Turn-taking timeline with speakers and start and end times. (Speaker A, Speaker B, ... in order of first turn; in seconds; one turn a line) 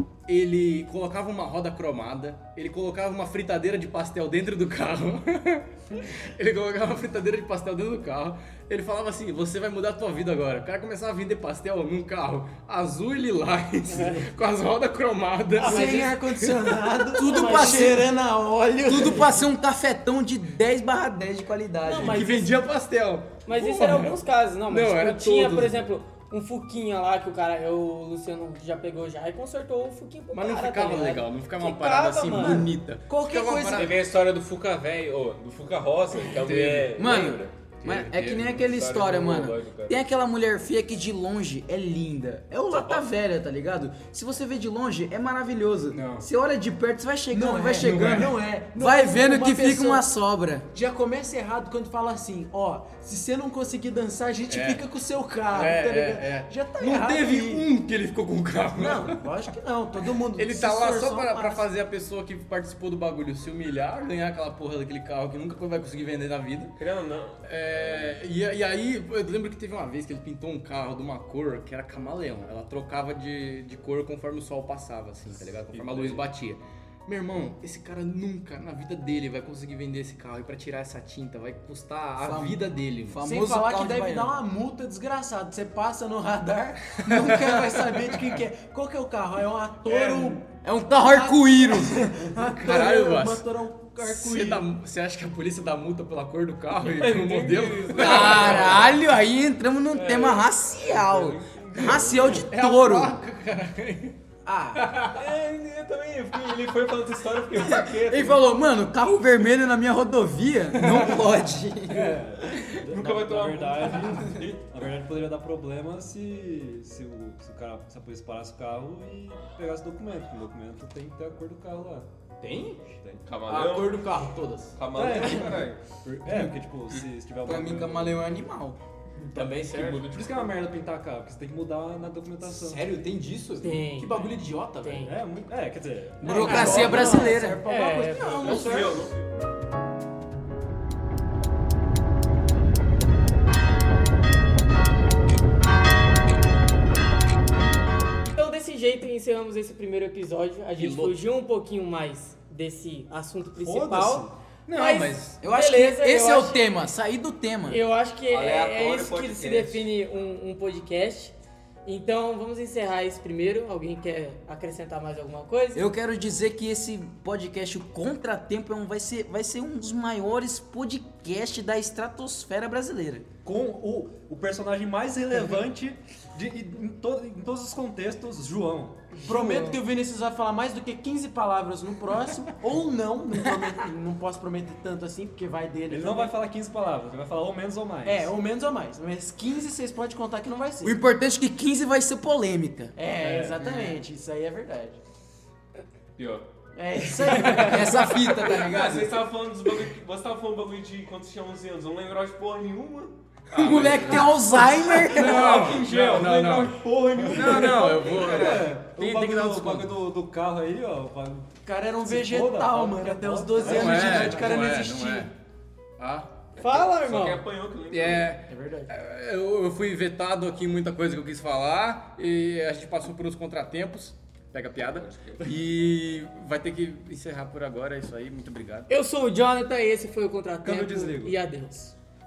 Speaker A: 0.3-16.9
Speaker B: 13.9-14.3
Speaker B: 15.6-16.1
Speaker C: 15.6-19.4
Speaker D: 17.1-18.1
Speaker B: 17.2-17.9
Speaker D: 18.8-22.3
Speaker B: 21.8-22.5
Speaker A: 22.0-25.9
Speaker B: 23.4-32.7
Speaker A: 30.3-34.0
Speaker C: 32.4-34.0
Speaker E: 33.7-37.5
Speaker A: 36.3-37.0
Speaker D: 37.0-50.7
Speaker A: 37.8-38.6
Speaker E: 38.5-40.0
Speaker A: 42.7-43.0
Speaker A: 45.9-46.2
Speaker C: 47.3-50.0
Speaker A: 47.8-48.3
Speaker C: 50.7-57.6
Speaker A: 54.5-54.8
Speaker A: 55.5-59.2
Speaker C: 58.8-61.6
Speaker A: 60.2-66.8
Speaker E: 66.8-68.2
Speaker A: 67.4-83.2
Speaker E: 75.7-76.2
Speaker D: 82.2-84.4
Speaker C: 83.2-94.6
Speaker A: 87.0-88.4
Speaker E: 89.9-90.3
Speaker D: 90.6-92.0
Speaker A: 92.5-98.9
Speaker E: 96.8-98.8
Speaker D: 97.9-103.2
Speaker E: 99.9-102.5
Speaker A: 102.3-104.2
Speaker D: 104.4-104.8
Speaker A: 104.7-105.2
Speaker E: 105.1-108.4
Speaker D: 107.6-112.2
Speaker A: 110.8-111.2
Speaker F: 111.9-122.1
Speaker E: 112.6-114.7
Speaker A: 122.4-122.9
Speaker E: 123.2-124.0
Speaker A: 123.5-125.3
Speaker E: 124.8-125.8
Speaker F: 124.9-128.3
Speaker A: 126.1-126.5
Speaker D: 127.5-128.8
Speaker A: 129.3-130.1
Speaker E: 129.6-130.6
Speaker F: 130.1-132.8
Speaker A: 132.4-135.1
Speaker B: 133.6-134.3
Speaker B: 134.8-135.2
Speaker F: 135.0-137.1
Speaker D: 136.2-137.6
Speaker C: 136.2-139.0
Speaker B: 136.2-138.8
Speaker A: 138.3-139.1
Speaker E: 138.4-139.2
Speaker B: 148.3-156.6
Speaker A: 150.8-151.2
Speaker F: 153.6-154.3
Speaker A: 154.7-155.4
Speaker D: 155.4-157.8
Speaker B: 157.7-165.8
Speaker E: 158.3-159.9
Speaker D: 165.7-173.2
Speaker F: 173.4-179.1
Speaker B: 179.1-179.8
Speaker C: 179.2-186.3
Speaker F: 185.9-188.3
Speaker C: 188.0-190.9
Speaker D: 190.8-192.9
Speaker C: 192.9-195.0
Speaker F: 193.2-193.6
Speaker D: 193.6-194.0
Speaker E: 196.2-196.4
Speaker C: 196.8-198.5
Speaker B: 197.2-197.8
Speaker D: 197.5-199.2
Speaker E: 198.4-204.3
Speaker A: 203.5-209.9
Speaker D: 203.6-205.4
Speaker F: 205.0-211.5
Speaker E: 207.2-208.6
Speaker C: 211.6-215.3
Speaker F: 212.0-214.7
Speaker A: 213.6-215.3
Speaker A: 216.0-216.6
Speaker B: 216.6-217.4
Speaker E: 216.7-218.3
Speaker A: 217.9-228.9
Speaker C: 218.5-218.9
Speaker E: 225.0-225.5
Speaker B: 228.9-231.9
Speaker F: 230.6-231.3